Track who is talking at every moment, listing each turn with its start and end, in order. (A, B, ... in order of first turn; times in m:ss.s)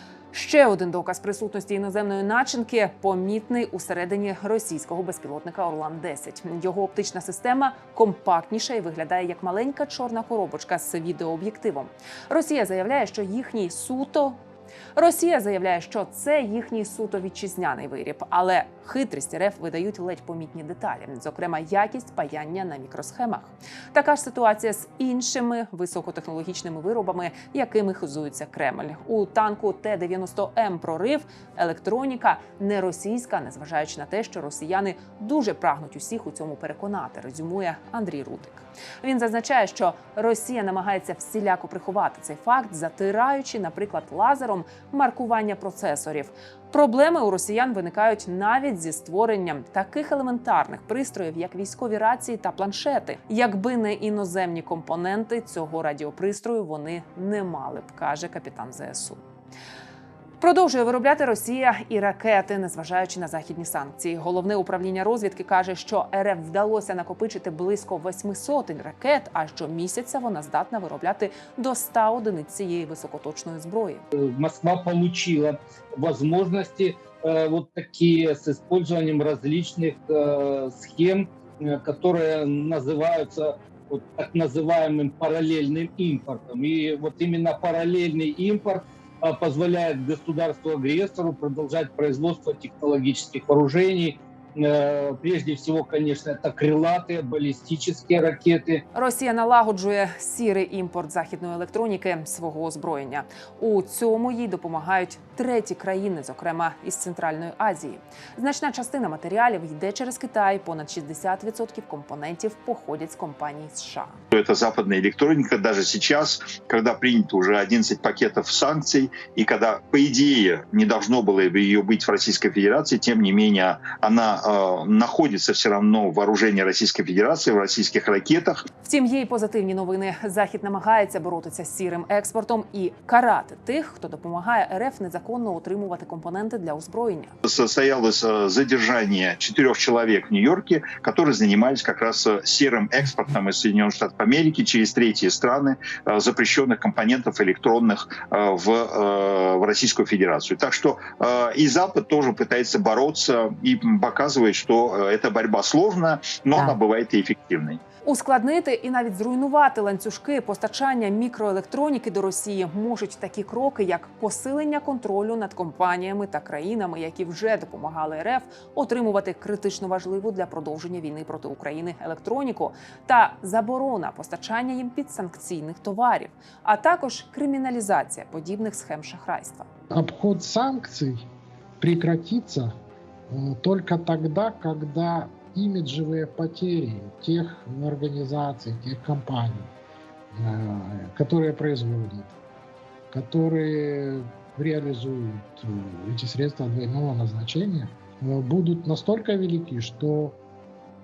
0:00.3-0:14.4 A
0:15.0-0:59.2 A
1:00.4-1:14.0 A
1:14.2-1:38.8 B
1:38.9-1:54.2 A
1:54.3-2:08.7 C
2:08.8-2:17.3 A
2:17.4-2:37.8 C
2:38.0-2:59.7 A
2:59.9-3:01.3 D
3:01.8-3:02.7 D
3:03.3-3:09.7 D
3:10.3-3:12.4 D
3:13.1-3:20.4 D